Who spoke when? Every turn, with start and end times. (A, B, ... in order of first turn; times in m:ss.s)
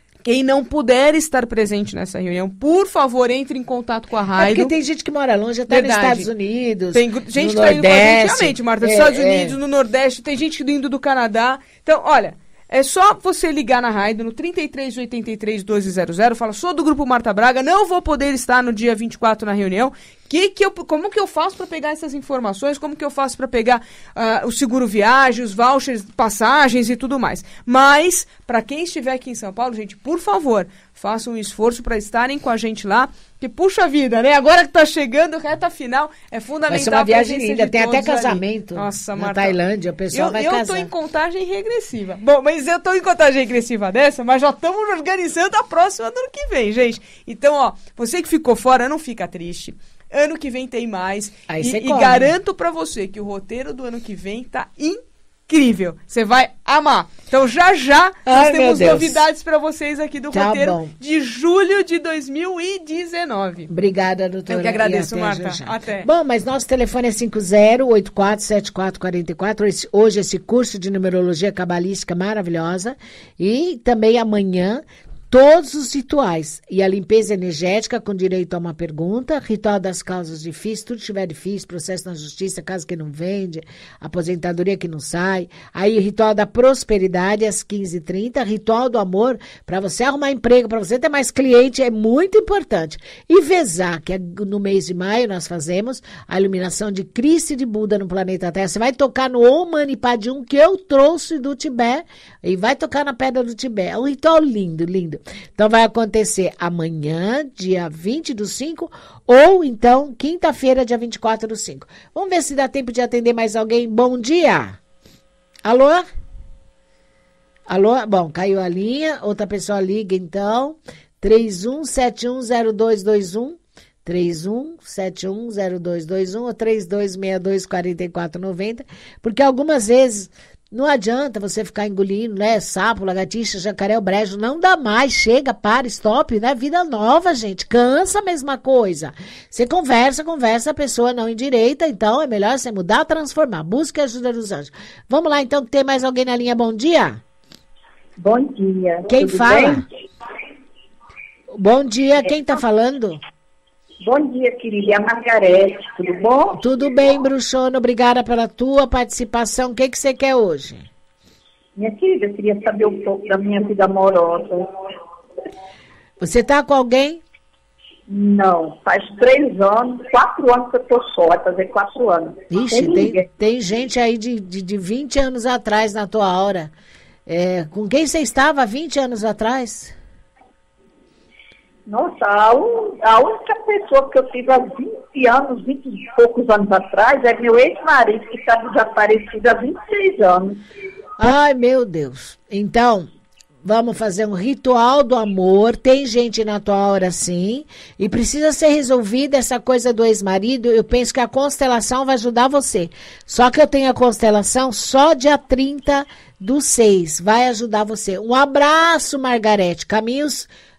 0:00.2-0:04.7 A
0:04.4-0:09.6 B
0:05.7-0:06.3 A
0:06.9-0:39.6 A
0:36.7-0:40.9 B
0:40.1-1:03.7 A
0:51.5-0:52.3 B
0:58.2-0:59.2 B
1:00.3-1:00.9 B
1:03.7-1:54.8 B
1:04.5-1:06.1 A
1:55.6-1:56.0 B
1:57.7-2:27.2 B
2:28.2-2:29.8 C
2:29.1-2:29.8 B
2:31.5-2:33.2 B
2:34.0-2:36.6 C
2:36.6-2:40.8 B
2:41.8-2:44.7 C
2:46.2-2:47.2 B
2:48.1-2:53.2 C
2:52.5-2:56.7 B
2:57.3-2:59.9 B
3:01.9-3:10.6 C
3:11.2-3:13.1 B
3:13.6-3:30.5 B